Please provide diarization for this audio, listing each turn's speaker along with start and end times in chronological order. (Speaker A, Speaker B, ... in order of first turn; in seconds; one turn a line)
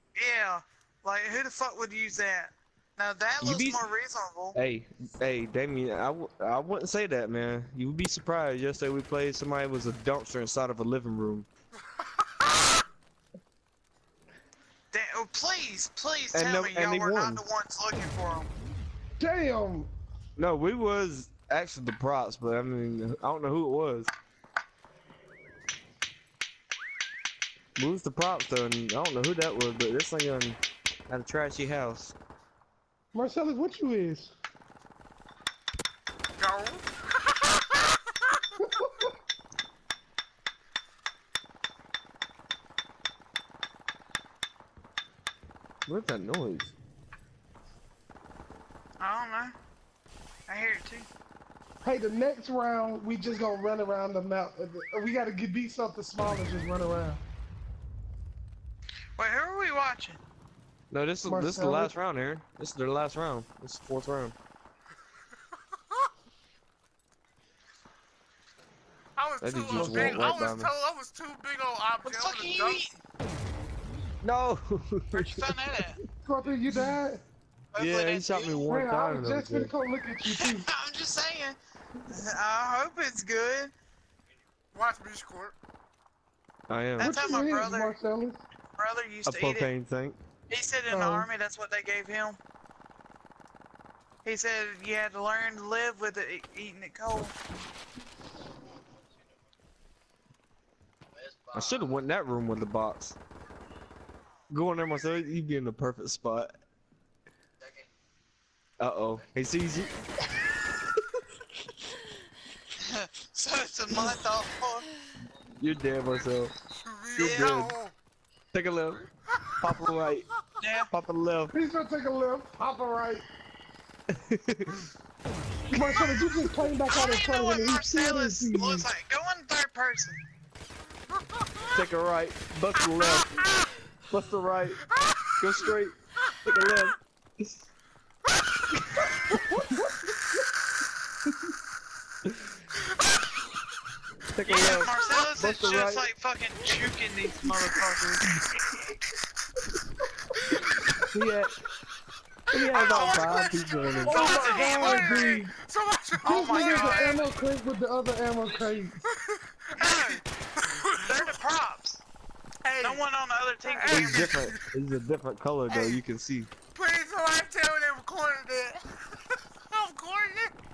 Speaker A: 0.2-4.6
Speaker B: 3.4-3.9
Speaker B: 4.5-11.5
Speaker A: 14.9-18.5
Speaker B: 16.3-17.4
Speaker C: 19.2-19.9
Speaker B: 20.4-24.1
Speaker B: 27.8-32.1
Speaker C: 33.1-34.3
Speaker D: 36.4-37.9
Speaker C: 38.6-39.1
Speaker B: 45.9-46.7
Speaker A: 49.0-49.5
Speaker A: 50.5-51.1
Speaker C: 51.8-57.2
Speaker A: 59.2-60.2
Speaker B: 60.9-64.3
Speaker C: 61.2-61.9
Speaker D: 69.2-72.8
Speaker B: 69.4-70.8
Speaker C: 69.8-70.2
Speaker A: 72.0-73.0
Speaker B: 74.2-75.8
Speaker A: 75.1-76.0
Speaker C: 76.2-77.2
Speaker A: 77.7-78.7
Speaker B: 77.8-79.7
Speaker C: 78.7-80.7
Speaker A: 80.3-81.6
Speaker A: 82.1-83.7
Speaker D: 84.7-85.5
Speaker B: 86.7-87.2
Speaker A: 87.0-88.0
Speaker C: 87.0-88.4
Speaker A: 88.8-89.7
Speaker B: 89.3-90.2
Speaker A: 90.5-92.4
Speaker C: 90.9-91.3
Speaker A: 94.2-97.3
Speaker B: 101.5-103.2
Speaker B: 104.5-106.6
Speaker B: 108.8-110.0
Speaker A: 112.8-114.9
Speaker B: 115.5-116.5
Speaker D: 116.7-117.9
Speaker B: 117.2-117.8
Speaker A: 117.2-117.6
Speaker B: 118.5-119.1
Speaker B: 119.6-120.3
Speaker A: 120.6-120.9
Speaker B: 120.9-121.5
Speaker C: 121.5-123.2
Speaker B: 124.1-124.9
Speaker C: 125.7-128.9
Speaker A: 126.9-130.2
Speaker B: 131.7-133.5
Speaker D: 132.8-133.7
Speaker B: 134.1-134.8
Speaker B: 135.4-137.6
Speaker B: 138.9-139.8
Speaker B: 144.3-146.1
Speaker A: 144.5-148.3
Speaker B: 151.1-151.5
Speaker B: 152.5-155.4
Speaker D: 152.5-157.2
Speaker A: 152.8-153.2
Speaker A: 154.1-154.9
Speaker C: 154.1-155.5
Speaker A: 156.2-157.2
Speaker C: 156.2-159.0
Speaker D: 159.2-161.3
Speaker A: 159.8-160.2
Speaker A: 161.0-162.0
Speaker D: 162.7-163.0
Speaker A: 162.8-164.3
Speaker D: 163.6-164.6
Speaker B: 163.9-166.5
Speaker D: 165.7-166.0
Speaker D: 166.7-169.0
Speaker D: 169.7-170.5